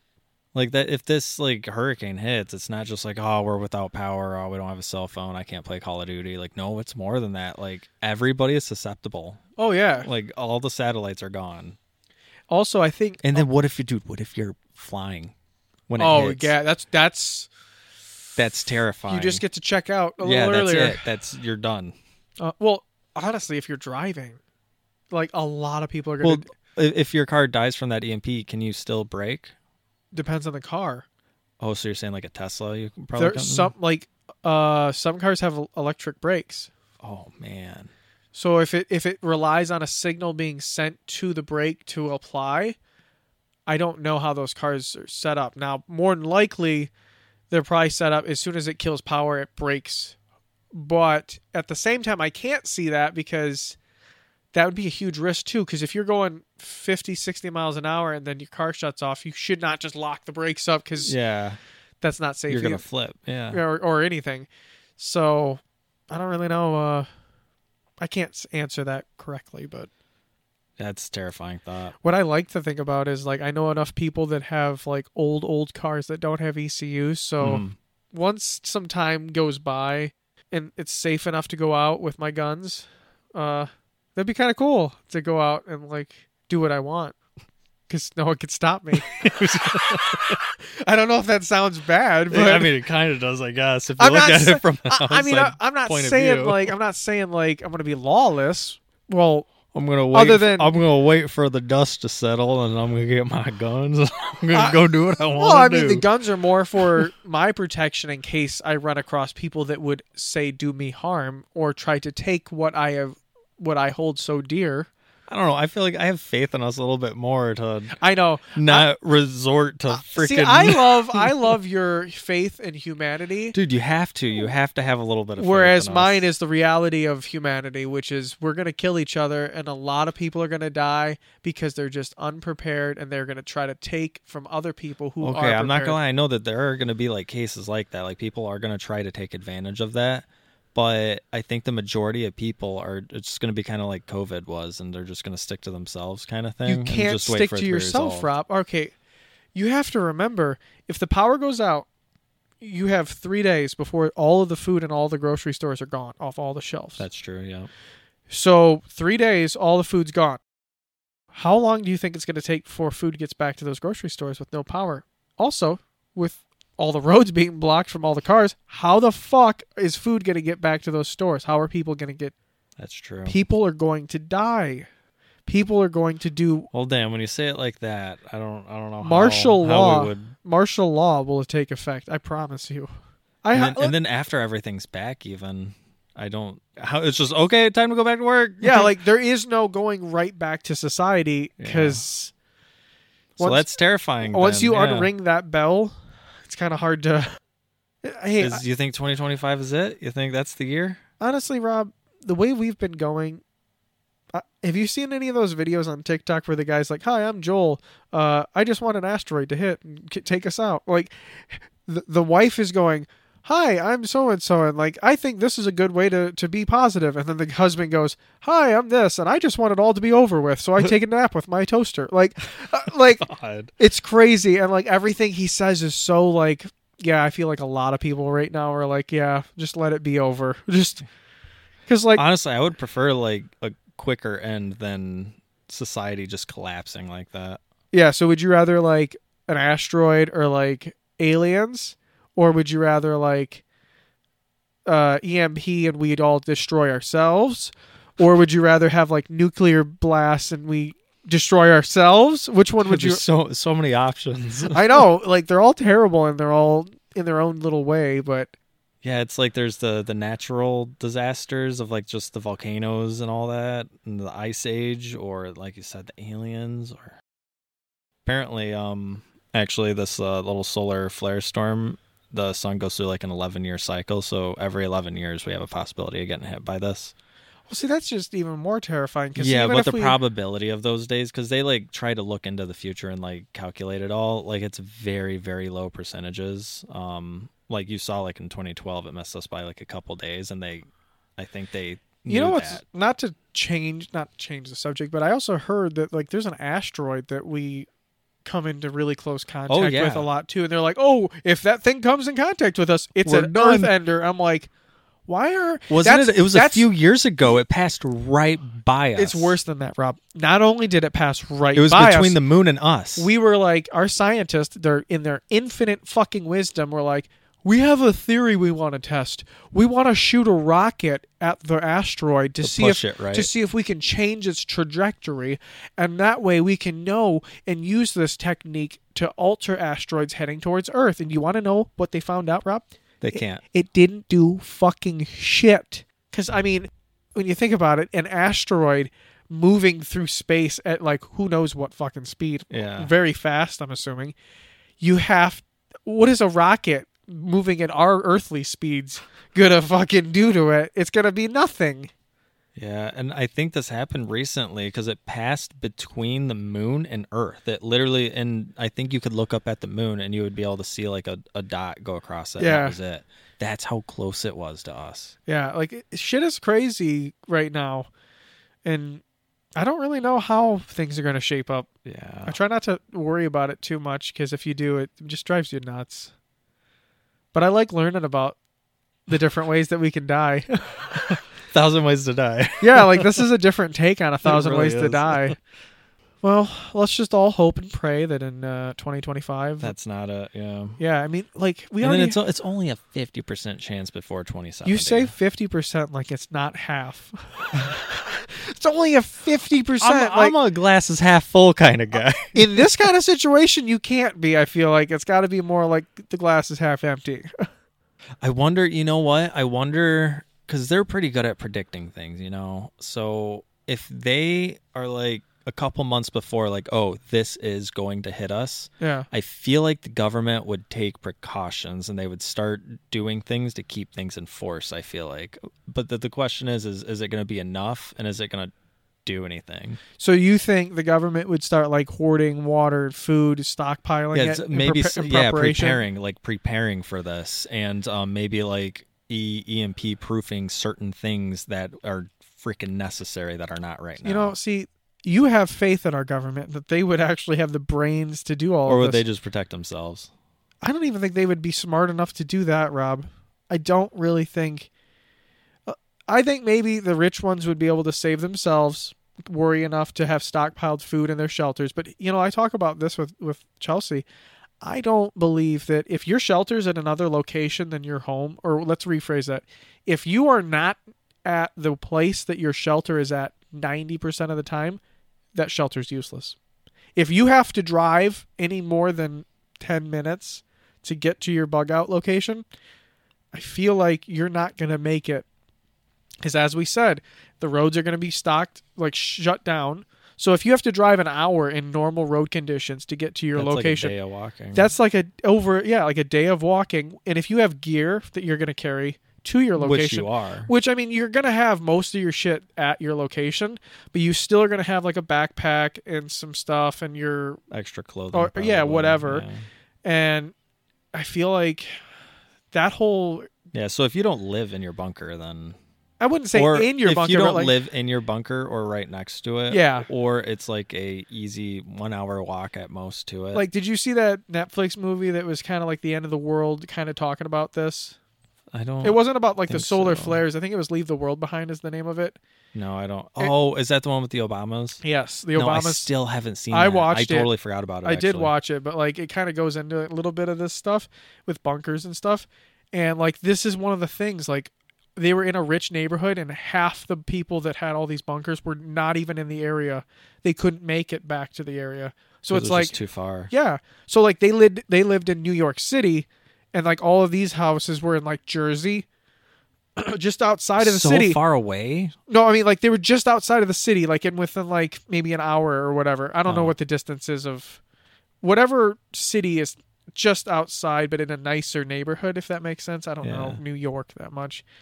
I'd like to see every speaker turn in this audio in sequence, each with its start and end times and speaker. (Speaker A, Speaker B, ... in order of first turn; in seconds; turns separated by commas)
Speaker A: 0.5-9.4, Speaker B: 9.6-10.1, Speaker A: 10.0-11.8, Speaker B: 12.5-13.4, Speaker A: 13.2-15.3, Speaker A: 15.9-16.5, Speaker B: 16.0-17.5, Speaker A: 18.4-19.4, Speaker B: 19.1-21.1, Speaker A: 20.2-21.9, Speaker B: 22.4-24.4, Speaker B: 25.1-26.5, Speaker A: 26.2-29.5, Speaker B: 30.1-31.1, Speaker A: 31.6-33.7, Speaker B: 33.1-36.7, Speaker A: 37.0-37.9, Speaker B: 38.3-42.8, Speaker B: 43.7-46.9, Speaker B: 47.5-50.1, Speaker B: 50.7-53.8, Speaker B: 54.5-61.1, Speaker A: 61.0-61.6, Speaker B: 62.0-62.8, Speaker A: 62.5-63.6, Speaker B: 63.5-67.1, Speaker B: 68.0-69.9, Speaker A: 70.8-71.9, Speaker B: 72.0-87.2, Speaker A: 77.4-77.8, Speaker B: 87.9-92.7, Speaker A: 89.1-90.4, Speaker A: 92.3-96.7, Speaker B: 94.0-99.5, Speaker A: 99.7-106.1, Speaker B: 100.1-100.8, Speaker B: 104.5-114.9, Speaker A: 115.3-118.0, Speaker B: 118.0-118.9, Speaker A: 118.5-121.5, Speaker B: 119.9-123.5, Speaker A: 123.5-126.2, Speaker B: 125.4-136.0, Speaker A: 135.2-148.3, Speaker B: 146.7-148.9, Speaker B: 149.5-151.9, Speaker B: 152.6-157.1, Speaker A: 157.0-157.7, Speaker B: 158.3-160.4, Speaker B: 161.3-172.3, Speaker A: 172.8-173.4, Speaker B: 173.2-174.9, Speaker B: 175.4-176.7, Speaker A: 176.7-180.3, Speaker B: 179.0-182.9, Speaker B: 183.4-183.9, Speaker A: 183.5-188.9, Speaker B: 188.6-192.3, Speaker A: 191.6-192.0, Speaker A: 193.4-195.1, Speaker B: 193.4-193.7, Speaker B: 194.2-197.4, Speaker B: 198.0-198.6, Speaker A: 198.4-201.0, Speaker B: 201.2-203.4, Speaker B: 204.3-231.0, Speaker A: 223.2-223.7, Speaker B: 231.9-232.2, Speaker A: 232.1-237.6, Speaker B: 237.9-243.6, Speaker B: 244.8-253.2, Speaker A: 252.8-255.0, Speaker B: 254.7-258.5, Speaker A: 259.0-267.2, Speaker A: 268.2-277.1, Speaker B: 277.7-280.2, Speaker A: 279.4-292.8, Speaker B: 292.3-297.9, Speaker B: 298.4-304.7, Speaker A: 299.7-300.3, Speaker A: 303.2-303.9, Speaker B: 305.3-306.9, Speaker A: 305.9-309.6, Speaker B: 309.1-312.4, Speaker A: 311.7-313.3, Speaker B: 313.2-344.3, Speaker A: 322.6-323.5, Speaker A: 333.2-333.6, Speaker A: 342.7-343.1, Speaker B: 345.0-352.1, Speaker A: 352.8-365.3, Speaker B: 362.6-363.0, Speaker B: 365.5-368.1, Speaker B: 368.8-369.2, Speaker B: 369.8-371.9, Speaker A: 372.0-372.6, Speaker B: 372.4-376.3, Speaker B: 377.5-378.6, Speaker B: 379.3-381.4, Speaker A: 381.7-383.4, Speaker B: 382.8-385.6, Speaker A: 384.4-385.6, Speaker B: 386.4-389.9, Speaker A: 389.8-391.0, Speaker B: 391.0-392.4, Speaker A: 392.0-395.3, Speaker B: 394.8-400.5, Speaker A: 400.0-402.9, Speaker B: 402.5-407.7, Speaker A: 408.4-428.7, Speaker B: 419.0-419.3, Speaker A: 429.2-430.0, Speaker B: 430.2-436.0, Speaker A: 434.3-444.6, Speaker B: 444.2-449.2, Speaker A: 448.9-450.3, Speaker B: 450.8-454.9, Speaker B: 455.9-464.2, Speaker B: 464.8-475.0, Speaker B: 475.5-476.6, Speaker B: 477.1-482.6, Speaker B: 483.5-485.4, Speaker B: 486.4-494.1, Speaker A: 493.6-494.9, Speaker B: 494.7-507.6, Speaker A: 499.8-500.7, Speaker A: 507.7-509.6, Speaker B: 508.3-509.4, Speaker B: 510.0-510.5, Speaker B: 511.1-511.9, Speaker B: 512.7-513.5, Speaker A: 513.7-515.8, Speaker B: 516.2-517.7, Speaker A: 516.5-523.6, Speaker B: 519.7-520.1, Speaker B: 523.5-528.1, Speaker A: 528.7-530.4, Speaker B: 529.0-532.4, Speaker A: 532.7-535.0, Speaker B: 535.0-536.1, Speaker A: 535.5-538.5, Speaker B: 536.7-537.5, Speaker B: 538.0-552.9, Speaker A: 552.5-553.5, Speaker B: 553.5-559.0, Speaker B: 560.0-561.4, Speaker A: 560.8-562.1, Speaker B: 562.3-567.8, Speaker A: 566.5-566.7, Speaker B: 568.4-574.6, Speaker A: 573.2-573.6